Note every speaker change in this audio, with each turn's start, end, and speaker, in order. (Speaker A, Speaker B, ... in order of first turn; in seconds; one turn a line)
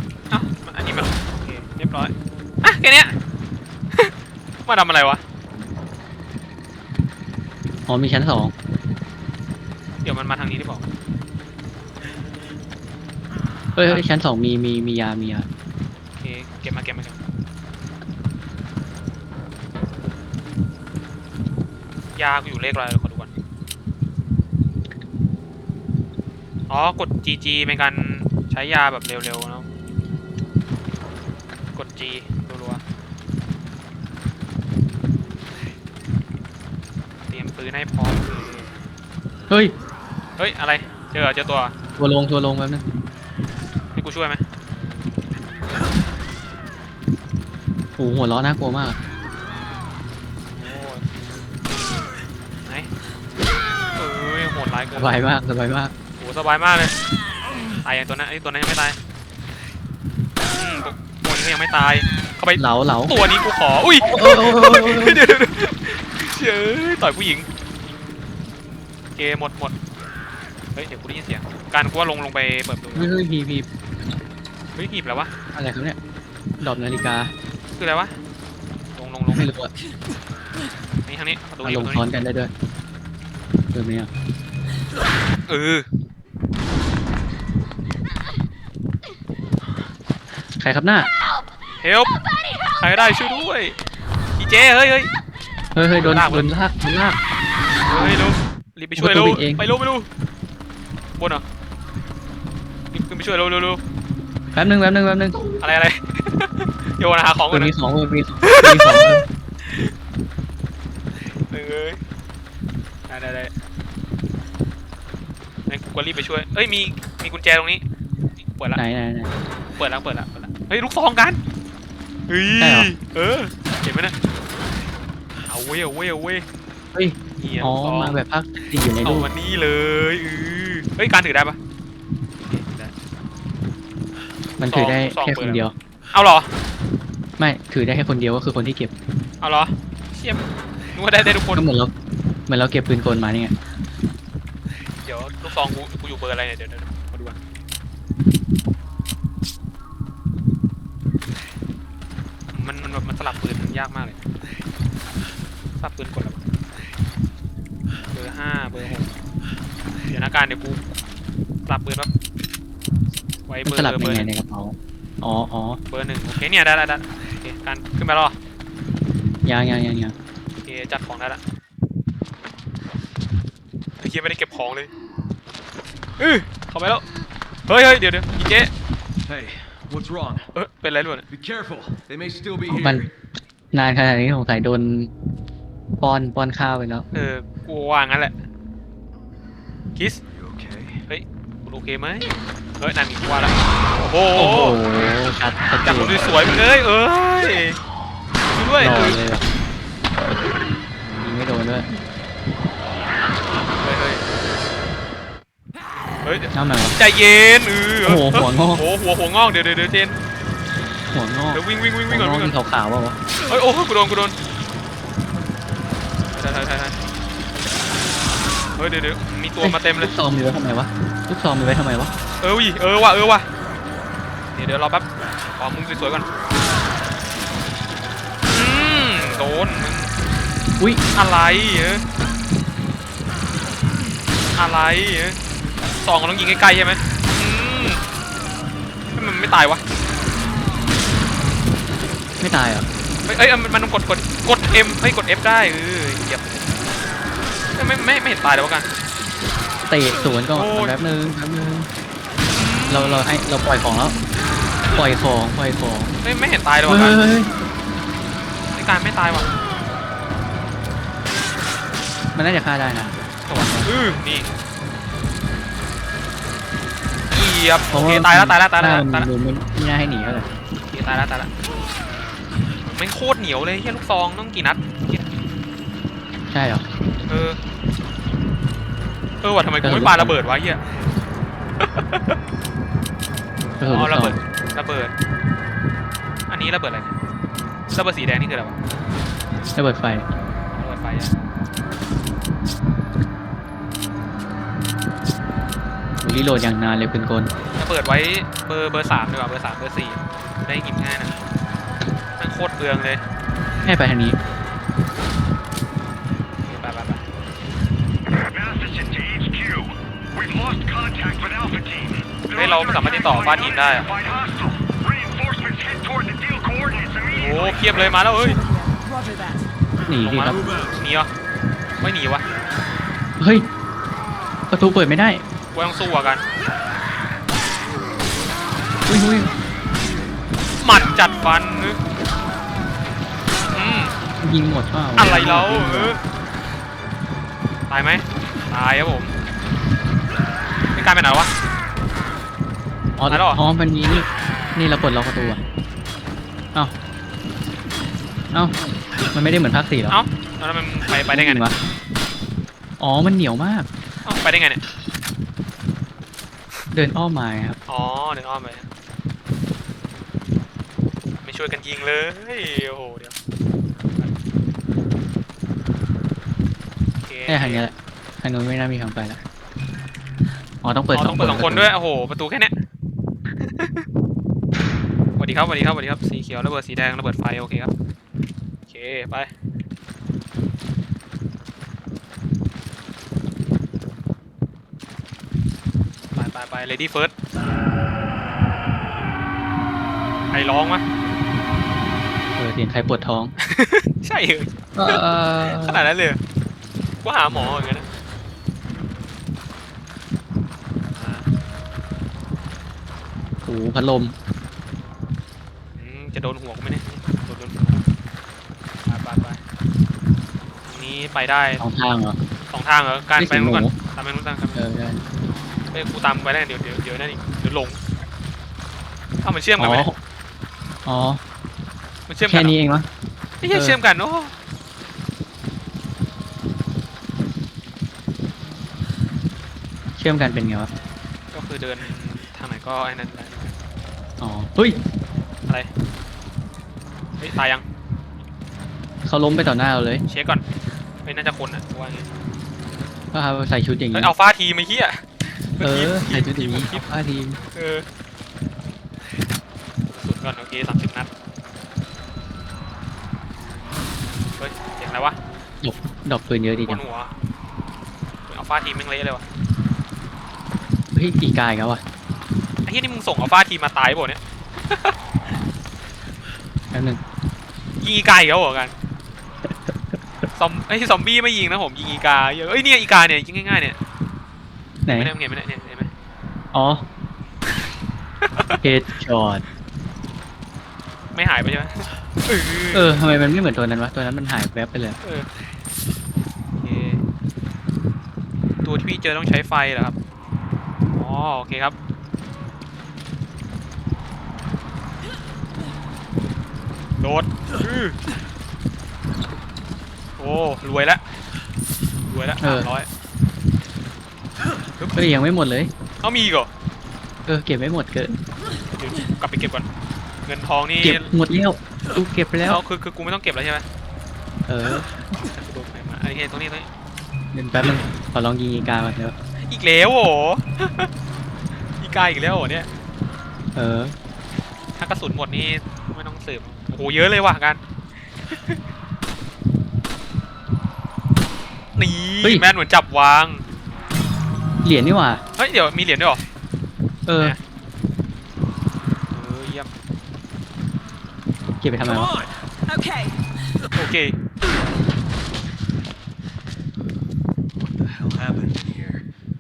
Speaker A: 0.3-3.1
Speaker A: 4.7-5.2
Speaker B: 7.9-8.5
Speaker A: 10.0-10.8
Speaker B: 13.8-15.5
Speaker A: 16.2-17.2
Speaker A: 22.2-23.3
Speaker A: 26.7-29.7
Speaker A: 31.7-32.8
Speaker A: 37.3-38.7
Speaker B: 39.5-39.8
Speaker A: 40.4-41.7
Speaker B: 42.0-42.8
Speaker A: 43.9-44.4
Speaker B: 48.0-49.0
Speaker A: 50.6-51.0
Speaker A: 54.0-55.1
Speaker B: 55.0-55.9
Speaker A: 56.2-57.0
Speaker A: 57.8-59.0
Speaker A: 60.5-67.5
Speaker B: 62.6-63.2
Speaker B: 64.0-65.2
Speaker A: 69.2-69.7
Speaker A: 70.8-73.1
Speaker B: 73.0-73.7
Speaker A: 74.8-75.3
Speaker B: 75.5-76.0
Speaker B: 76.6-77.3
Speaker A: 77.8-78.2
Speaker A: 79.0-79.5
Speaker B: 79.3-79.7
Speaker A: 81.0-82.1
Speaker B: 81.6-82.5
Speaker B: 83.7-84.1
Speaker A: 85.5-85.9
Speaker B: 90.6-91.1
Speaker A: 91.8-92.2
Speaker A: 92.7-93.8
Speaker A: 94.4-95.1
Speaker B: 95.8-97.2
Speaker A: 96.0-96.5
Speaker A: 97.9-100.1
Speaker B: 99.0-99.6
Speaker A: 101.2-101.4
Speaker A: 102.9-103.8
Speaker B: 104.5-105.5
Speaker A: 105.6-107.7
Speaker B: 107.5-109.2
Speaker A: 108.4-109.9
Speaker A: 111.3-112.0
Speaker A: 113.1-113.5
Speaker A: 115.7-117.8
Speaker A: 118.6-118.8
Speaker B: 118.8-119.3
Speaker A: 119.8-121.4
Speaker A: 122.3-124.2
Speaker B: 122.6-122.9
Speaker A: 125.5-126.5
Speaker B: 126.9-129.3
Speaker A: 127.4-128.2
Speaker A: 129.0-131.6
Speaker A: 132.5-132.9
Speaker B: 134.6-135.7
Speaker A: 134.7-136.5
Speaker B: 137.4-138.9
Speaker A: 139.4-141.7
Speaker B: 141.5-141.9
Speaker B: 142.5-143.5
Speaker A: 145.0-147.4
Speaker A: 152.5-154.2
Speaker A: 155.8-156.4
Speaker A: 158.1-159.1
Speaker A: 160.1-161.0
Speaker A: 161.7-162.1
Speaker A: 163.5-164.3
Speaker B: 163.7-165.8
Speaker A: 165.9-168.3
Speaker B: 169.4-170.2
Speaker A: 170.6-171.4
Speaker A: 174.0-174.9
Speaker A: 176.2-177.0
Speaker A: 177.7-178.7
Speaker C: 179.3-180.5
Speaker A: 180.6-181.3
Speaker C: 181.3-183.1
Speaker B: 182.7-183.1
Speaker B: 183.7-185.1
Speaker B: 186.0-187.1
Speaker A: 187.1-188.3
Speaker C: 190.3-191.0
Speaker A: 191.1-194.8
Speaker B: 194.3-196.2
Speaker A: 195.8-197.8
Speaker A: 198.5-199.2
Speaker B: 198.8-199.4
Speaker B: 201.1-201.9
Speaker A: 203.8-204.2
Speaker A: 206.2-210.2
Speaker B: 206.5-207.0
Speaker B: 208.0-208.8
Speaker B: 211.1-213.2
Speaker A: 211.5-212.5
Speaker A: 213.5-214.4
Speaker A: 216.3-217.0
Speaker A: 218.8-220.1
Speaker B: 219.6-222.1
Speaker A: 222.4-223.5
Speaker A: 224.5-226.3
Speaker A: 228.5-230.1
Speaker A: 231.2-232.0
Speaker A: 234.6-235.4
Speaker A: 236.0-238.0
Speaker A: 239.1-239.8
Speaker B: 242.4-242.9
Speaker A: 243.2-246.5
Speaker A: 247.8-248.9
Speaker B: 249.9-251.9
Speaker A: 250.5-251.0
Speaker A: 252.5-253.3
Speaker B: 252.9-254.2
Speaker B: 254.9-256.1
Speaker A: 256.2-257.2
Speaker B: 256.9-257.5
Speaker A: 258.7-259.5
Speaker B: 262.4-263.9
Speaker A: 263.5-264.5
Speaker A: 267.3-269.3
Speaker B: 267.9-270.5
Speaker A: 270.9-271.5
Speaker A: 272.9-275.3
Speaker B: 276.5-276.9
Speaker A: 277.3-277.6
Speaker A: 279.4-280.8
Speaker B: 279.8-280.4
Speaker A: 281.8-282.4
Speaker B: 283.8-284.4
Speaker A: 283.8-285.1
Speaker A: 286.5-287.1
Speaker A: 287.9-288.8
Speaker B: 289.8-290.3
Speaker A: 290.7-291.4
Speaker B: 296.2-297.5
Speaker A: 297.8-301.4
Speaker A: 302.4-303.2
Speaker B: 303.8-304.4
Speaker A: 306.6-307.2
Speaker D: 308.5-318.1
Speaker A: 312.5-314.1
Speaker A: 317.3-318.6
Speaker E: 318.2-319.7
Speaker B: 320.1-320.7
Speaker A: 320.2-321.3
Speaker A: 322.0-322.4
Speaker B: 323.4-323.7
Speaker B: 324.7-325.4
Speaker A: 325.7-326.4
Speaker B: 329.1-329.5
Speaker A: 330.8-332.0
Speaker A: 333.7-334.2
Speaker B: 334.4-336.2
Speaker A: 335.2-336.2
Speaker A: 337.9-339.3
Speaker A: 340.9-341.5
Speaker B: 343.2-345.6
Speaker A: 343.3-343.6
Speaker B: 349.3-350.2
Speaker A: 350.1-351.7
Speaker B: 351.3-351.8
Speaker B: 353.0-353.9
Speaker A: 354.2-354.8
Speaker B: 356.9-357.8
Speaker A: 357.9-358.9
Speaker A: 361.4-363.3
Speaker A: 367.2-367.8
Speaker B: 367.5-369.4
Speaker B: 370.8-371.9
Speaker A: 371.1-372.7
Speaker A: 373.6-374.1
Speaker A: 375.4-377.9
Speaker A: 378.9-379.5
Speaker A: 386.4-387.3
Speaker A: 390.5-391.1
Speaker B: 392.6-393.5
Speaker A: 393.6-396.4
Speaker B: 395.0-396.0
Speaker A: 397.2-398.1
Speaker A: 401.1-401.5
Speaker B: 403.7-404.3
Speaker A: 406.0-408.1
Speaker A: 409.1-409.6
Speaker A: 410.8-411.8
Speaker B: 411.8-412.4
Speaker A: 412.7-414.8
Speaker B: 413.4-413.9
Speaker B: 414.8-415.2
Speaker A: 415.9-418.0
Speaker A: 419.4-420.1
Speaker B: 419.8-420.2
Speaker B: 421.1-421.4
Speaker A: 422.3-422.8
Speaker B: 422.5-423.1
Speaker A: 423.6-424.5
Speaker B: 423.7-424.0
Speaker B: 430.2-430.9
Speaker A: 431.5-433.7
Speaker B: 434.4-435.0
Speaker A: 437.4-437.9
Speaker B: 439.2-440.2
Speaker A: 440.3-440.6
Speaker A: 441.2-442.4
Speaker B: 443.3-444.3
Speaker A: 444.1-447.1
Speaker B: 445.8-447.6
Speaker A: 447.8-448.1
Speaker A: 450.1-451.3
Speaker A: 454.6-455.4
Speaker B: 455.8-457.0
Speaker A: 456.8-457.3
Speaker A: 458.5-459.4
Speaker B: 461.1-462.0
Speaker A: 462.8-465.1
Speaker B: 466.9-467.2
Speaker A: 468.0-468.9
Speaker A: 470.5-474.0
Speaker B: 475.1-475.3
Speaker A: 475.1-476.1
Speaker B: 476.7-477.1
Speaker A: 478.4-478.8
Speaker B: 478.8-479.6
Speaker A: 481.3-483.2
Speaker B: 482.9-485.2
Speaker A: 485.2-485.5
Speaker A: 486.8-487.2
Speaker A: 488.8-490.1
Speaker A: 491.1-491.9
Speaker A: 497.2-498.2
Speaker A: 500.4-501.2
Speaker A: 502.3-503.1
Speaker B: 502.6-502.9
Speaker A: 505.0-505.3
Speaker B: 505.1-505.9
Speaker A: 506.2-506.7
Speaker B: 507.5-508.4
Speaker A: 509.0-509.9
Speaker A: 510.5-511.3
Speaker B: 511.0-512.8
Speaker A: 512.6-513.9
Speaker B: 514.7-515.1
Speaker A: 515.4-516.9
Speaker B: 517.5-519.4
Speaker A: 519.6-521.1
Speaker A: 522.0-522.9
Speaker B: 523.8-524.1
Speaker A: 525.0-527.8
Speaker A: 528.5-528.8
Speaker A: 532.0-533.6
Speaker B: 534.8-535.4
Speaker A: 535.6-536.4
Speaker B: 537.3-537.6
Speaker A: 539.3-539.9
Speaker B: 541.8-542.3
Speaker C: 542.0-542.6
Speaker E: 542.9-543.4
Speaker A: 544.0-544.4
Speaker C: 547.8-549.2